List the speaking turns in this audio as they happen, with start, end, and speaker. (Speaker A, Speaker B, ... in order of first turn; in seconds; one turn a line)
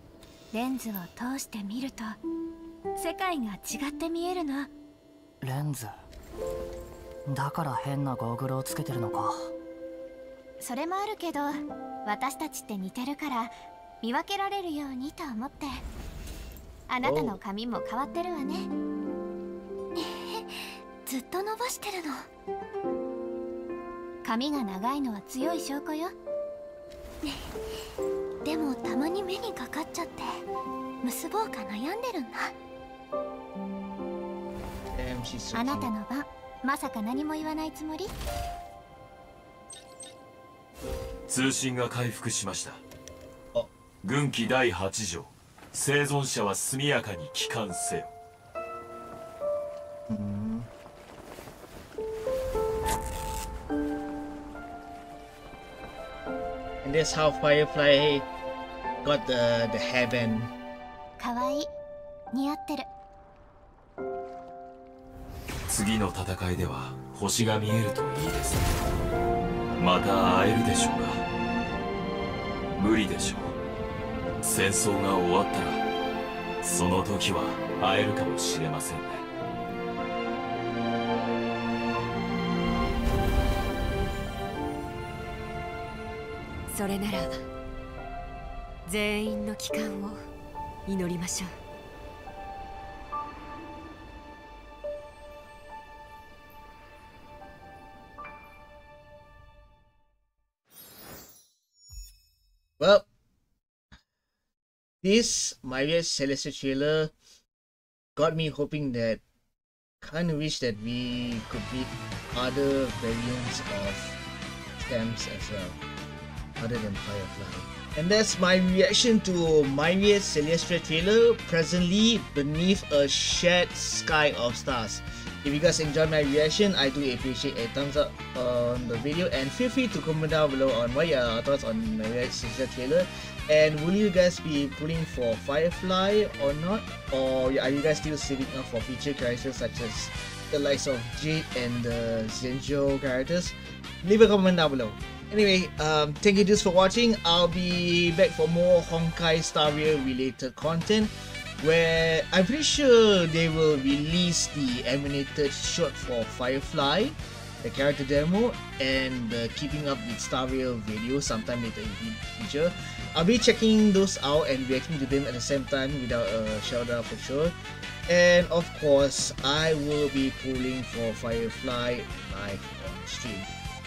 Speaker A: 0.5-2.2
Speaker A: 3.0-4.7
Speaker B: 5.4-5.9
Speaker B: 7.3-9.5
Speaker A: 10.6-15.8
Speaker A: 16.9-18.7
Speaker C: 17.0-17.4
Speaker A: 19.9-22.2
Speaker A: 24.2-26.1
Speaker A: 28.4-30.3
Speaker A: 31.0-32.5
Speaker C: 34.9-35.9
Speaker A: 35.5-38.1
Speaker D: 41.3-42.8
Speaker D: 44.0-48.1
Speaker C: 50.1-50.7
Speaker C: 56.8-58.3
Speaker C: 59.0-60.5
Speaker A: 61.2-61.7
Speaker A: 62.3-62.9
Speaker D: 65.7-68.8
Speaker D: 69.8-71.2
Speaker D: 72.7-73.6
Speaker D: 74.4-75.8
Speaker D: 76.6-79.2
Speaker E: 86.7-87.4
Speaker E: 88.8-90.2
Speaker E: 90.8-91.5
Speaker C: 102.8-103.1
Speaker C: 105.0-107.1
Speaker C: 108.2-109.2
Speaker C: 110.0-114.2
Speaker C: 114.8-115.8
Speaker C: 116.6-167.5
Speaker C: 168.1-173.5